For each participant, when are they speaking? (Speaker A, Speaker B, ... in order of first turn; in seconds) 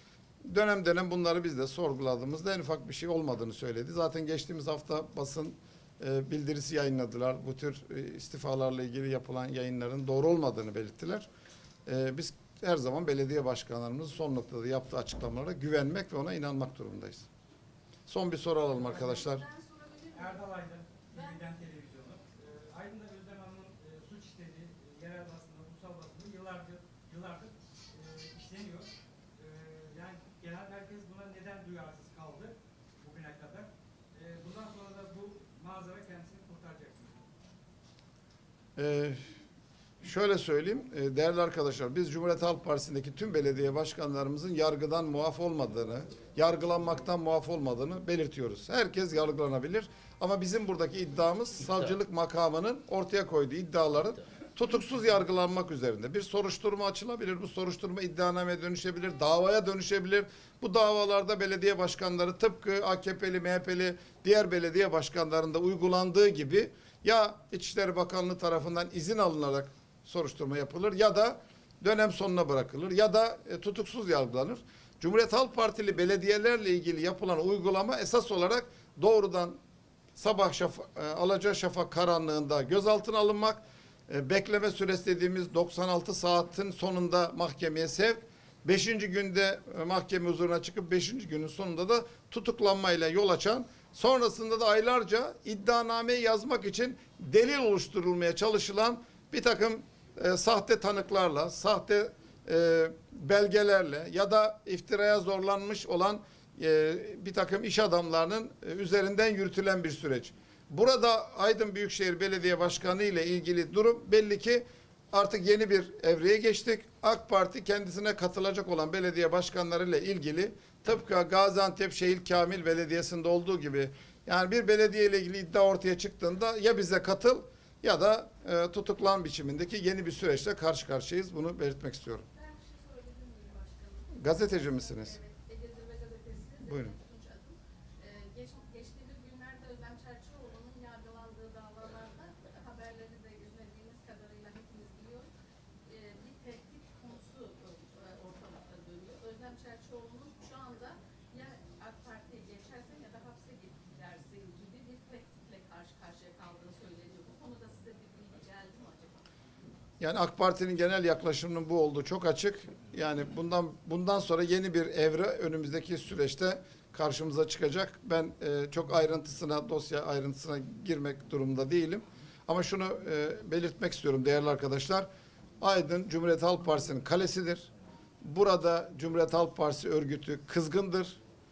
Speaker A: 0.4-11.3, 11.8-17.2, 18.1-19.4, 38.8-39.2, 40.0-79.6, 80.2-132.3, 134.2-135.1, 136.6-136.9, 160.0-175.1, 175.6-177.7, 178.2-181.2
Speaker B: 18.7-20.5, 21.1-21.4, 132.3-145.3, 145.8-159.2
Speaker C: 20.1-37.2